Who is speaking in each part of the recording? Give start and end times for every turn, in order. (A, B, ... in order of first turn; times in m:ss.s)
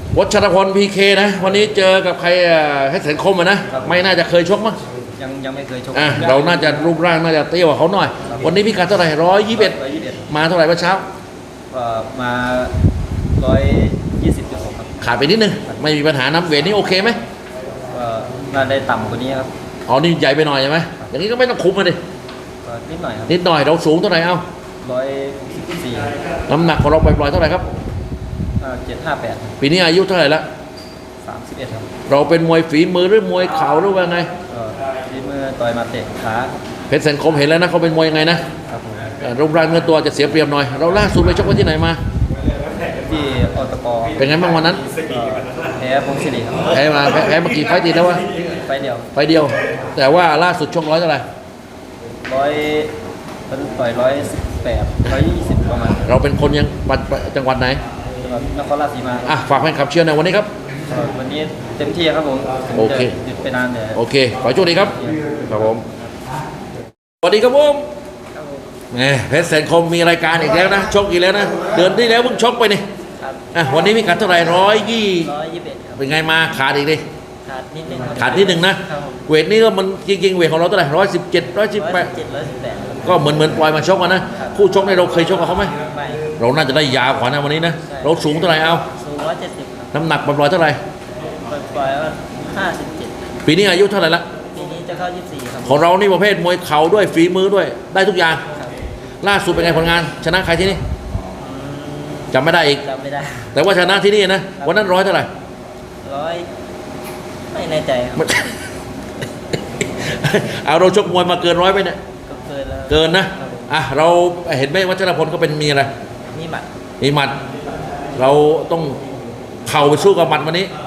0:00.1-0:04.8 A
0:03.7-0:04.0 B
0:05.2-0:06.8 B
0:05.9-0:09.8 A
0:08.2-0:08.5 B
0:09.5-0:10.3 B
0:10.3-0:11.1 A
0:11.7-0:12.7 B
0:13.4-0:15.1 B
0:15.0-0:17.2 A
0:17.9-0:19.5 B
0:19.9-0:22.0 A
0:22.6-0:23.4 B
0:23.3-0:24.4 A
0:24.8-0:26.2 B
0:26.5-0:27.7 A
0:28.6-0:29.6 B
0:29.6-0:30.4 A
0:31.2-0:31.9 B
0:32.1-0:34.3 A
0:34.5-0:36.6 B
0:36.9-0:38.4 A
0:38.7-0:39.2 B
0:39.2-0:42.0 A
0:42.9-0:44.3 B
0:44.2-0:44.8 A
0:44.9-0:46.8 B
0:46.7-0:48.3 A
0:48.3-0:49.1 B
0:49.2-0:51.2 A
0:52.2-0:53.0 B
0:53.5-0:56.1 B
0:56.0-0:57.8 A
0:58.2-0:59.4 B
0:59.3-1:00.5 A
1:00.9-1:04.0 B
1:02.8-1:03.1 A
1:04.0-1:05.0 A
1:04.7-1:05.5 B
1:05.5-1:05.8 A
1:07.2-1:07.9 A
1:08.9-1:12.8 A
1:13.2-1:13.5 B
1:13.5-1:15.3 A
1:15.2-1:16.0 B
1:16.0-1:17.0 A
1:17.5-1:19.2 B
1:18.2-1:22.1 A
1:21.8-1:23.1 B
1:23.0-1:25.8 A
1:24.4-1:24.6 B
1:25.2-1:26.3 B
1:26.4-1:28.9 A
1:27.8-1:28.3 B
1:28.8-1:29.9 B
1:29.9-1:30.8 A
1:31.5-1:33.1 B
1:33.5-1:34.3 A
1:34.6-1:35.8 B
1:35.6-1:38.4 A
1:39.2-1:40.8 A
1:41.4-1:43.6 B
1:42.3-1:42.8 A
1:43.5-1:45.3 A
1:44.6-1:44.9 B
1:46.0-1:46.5 B
1:47.5-1:48.4 B
1:48.2-1:48.6 A
1:49.8-1:52.0 A
1:52.3-1:53.7 B
1:52.9-1:55.9 A
1:56.3-1:56.7 B
1:57.0-1:57.4 A
1:58.2-1:59.0 A
1:59.7-2:00.7 A